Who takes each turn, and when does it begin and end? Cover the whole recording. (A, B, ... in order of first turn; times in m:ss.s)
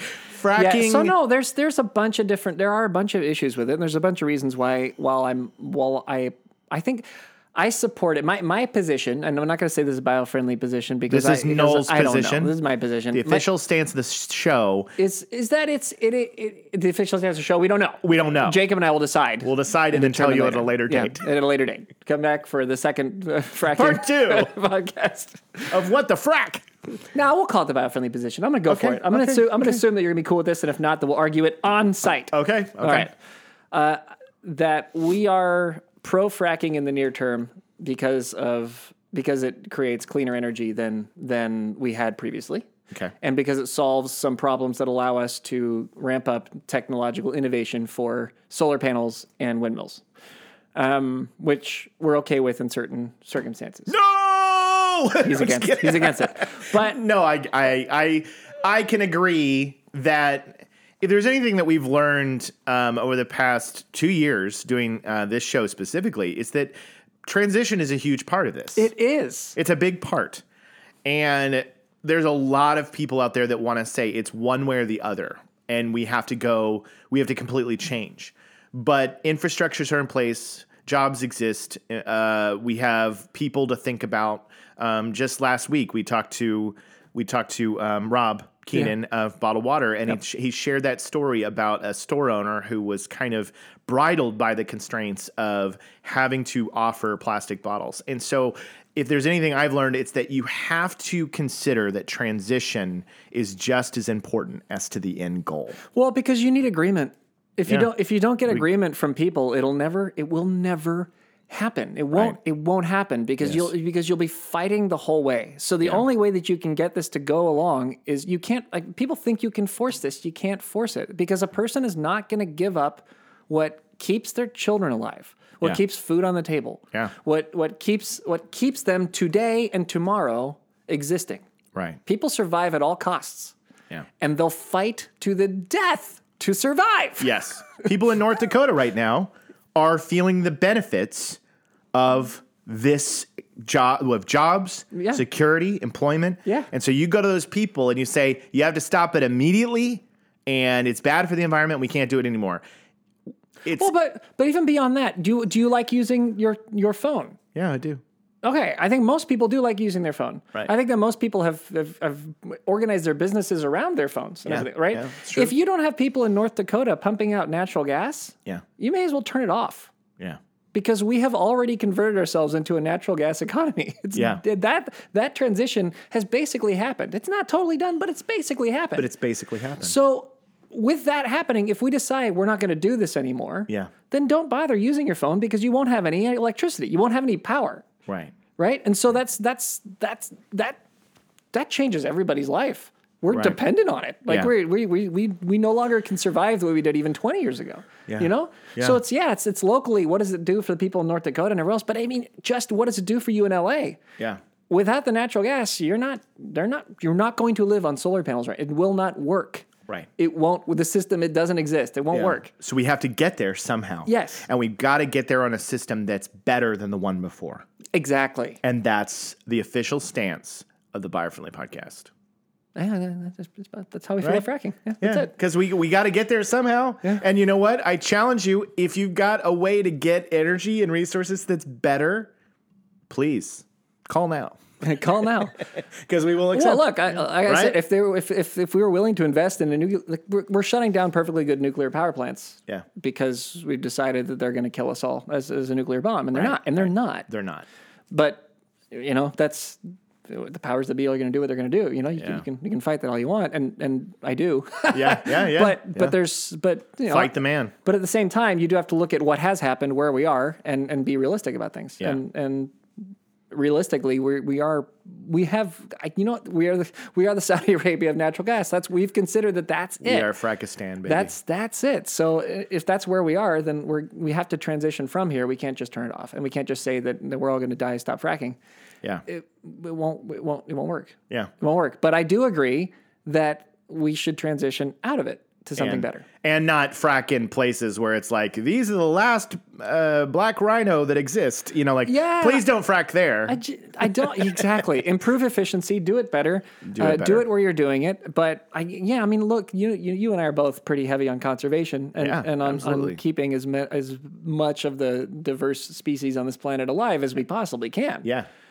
0:00.3-0:01.1 A
0:00.5-0:07.0 B
0:07.5-0:13.4 B
0:11.1-0:12.6 A
0:13.1-0:14.9 A
0:15.0-0:25.7 B
0:18.0-0:18.6 A
0:19.4-0:21.2 A
0:23.7-0:24.5 A
0:25.7-0:26.6 A
0:27.1-0:33.1 B
0:28.7-0:29.5 A
0:32.3-0:33.1 A
0:33.7-0:42.7 B
0:43.2-0:50.0 B
0:50.7-0:53.9 B
0:53.9-1:06.7 A
0:55.2-0:57.0 B
1:07.2-1:08.9 A
1:08.8-1:09.6 B
1:09.6-1:10.4 A
1:11.0-1:45.8 A
1:45.9-2:11.4 B
1:53.4-1:53.7 A
2:11.7-2:12.0 A
2:12.0-2:13.5 B
2:14.2-2:17.3 B
2:17.2-2:21.4 A
2:21.9-2:32.6 A
2:24.9-2:25.2 B
2:33.7-2:37.4 B
2:37.5-2:38.0 A
2:38.4-2:49.9 B
2:44.4-2:45.5 A
2:50.7-2:59.1 B
2:54.1-2:54.4 A
2:59.0-2:59.9 A
2:59.8-3:07.9 B
3:08.0-3:08.4 A
3:08.6-3:10.8 B
3:11.5-3:24.0 B
3:13.3-3:13.6 A
3:18.1-3:19.0 A
3:24.7-3:29.7 B
3:30.2-3:32.5 B
3:32.1-3:37.6 A
3:34.0-3:34.5 B
3:37.9-3:38.6 B
3:38.6-3:42.1 A
3:42.8-3:45.3 B
3:45.0-3:52.3 A
3:53.1-3:54.6 A
3:54.8-3:55.6 B
3:55.6-3:57.8 A
3:56.5-4:07.3 B
4:06.3-4:07.6 A
4:08.1-4:30.3 B
4:12.2-4:12.4 A
4:14.9-4:16.2 A
4:17.1-4:17.7 A
4:30.0-4:31.3 A
4:31.0-4:38.6 B
4:39.2-4:46.2 B
4:45.8-4:53.6 A
4:52.0-4:52.7 B
4:53.5-5:08.3 B
4:54.3-4:54.6 A
4:56.8-4:57.4 A
5:02.2-5:03.2 A